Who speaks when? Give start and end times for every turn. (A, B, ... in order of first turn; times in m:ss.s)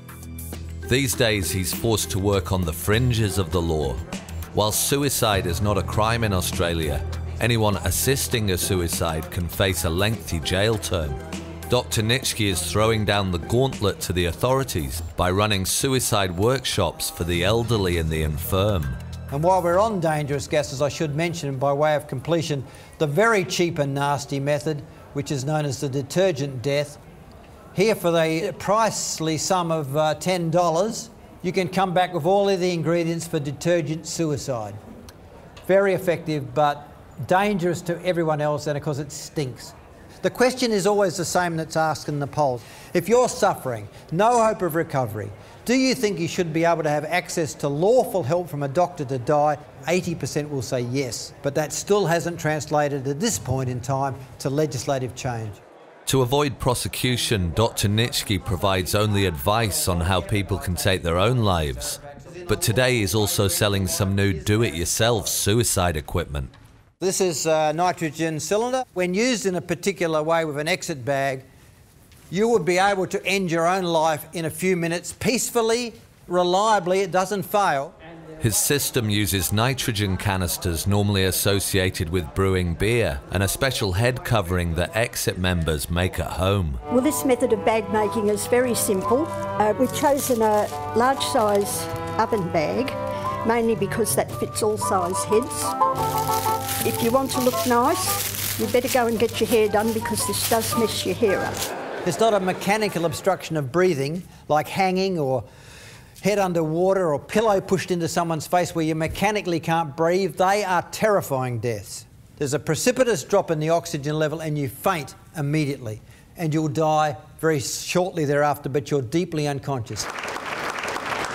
0:00.8-0:19.0 A
0:19.3-0:27.0 B
0:27.7-0:34.8 B
0:35.6-0:55.6 B
0:56.1-1:06.5 A
1:07.0-1:11.4 B
1:12.3-1:17.9 B
1:18.4-1:26.8 A
1:26.9-1:35.7 C
1:36.8-1:41.6 C
1:42.0-1:45.4 B
1:46.2-2:00.1 B